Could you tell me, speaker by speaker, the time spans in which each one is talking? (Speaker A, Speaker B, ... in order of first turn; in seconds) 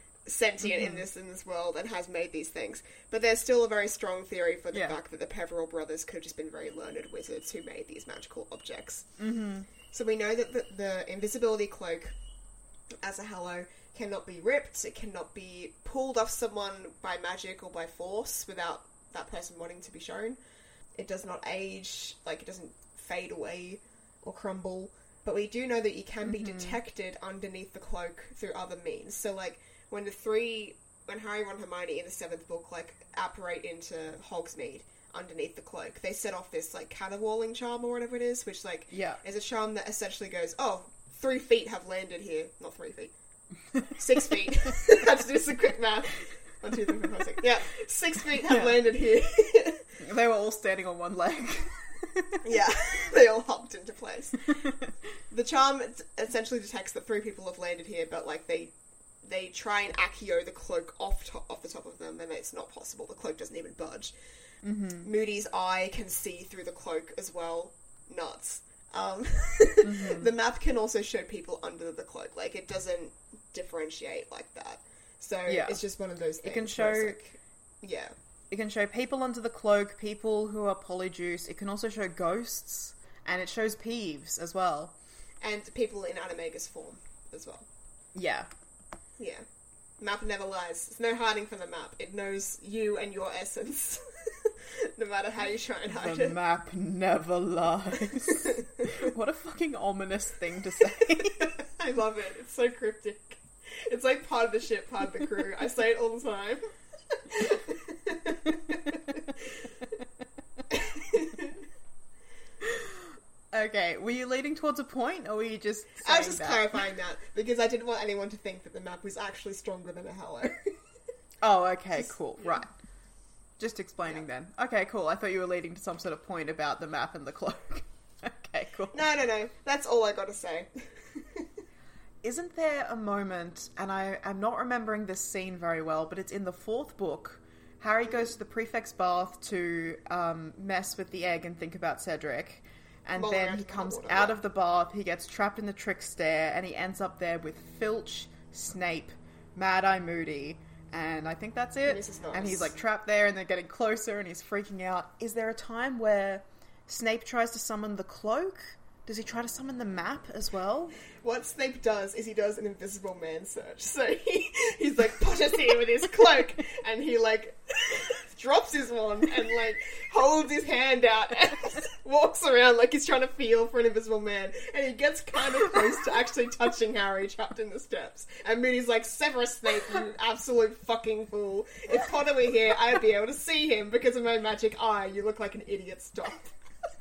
Speaker A: 0.2-9.1, 9.9-12.1, 13.0-20.4, 21.0-43.1, 43.9-49.8, 52.4-54.4, 55.3-64.1, 65.0-78.1, 85.4-87.7, 89.2-89.4, 90.0-96.3, 98.4-98.8, 101.5-109.2, 110.7-111.6, 116.0-120.7, 122.0-122.6, 128.9-131.5, 143.2-144.4, 151.8-152.7, 161.2-186.6
Speaker B: 0.6-1.0, 4.7-5.0, 9.2-9.7, 26.2-26.8, 38.9-39.2, 48.4-48.8, 50.0-52.4, 54.5-54.9, 64.6-65.1, 69.8-70.3, 75.5-75.8, 76.4-77.2, 78.5-84.9, 88.1-88.5, 95.9-101.5, 112.6-113.0, 113.5-116.9, 121.4-122.7, 123.6-129.0, 132.2-160.9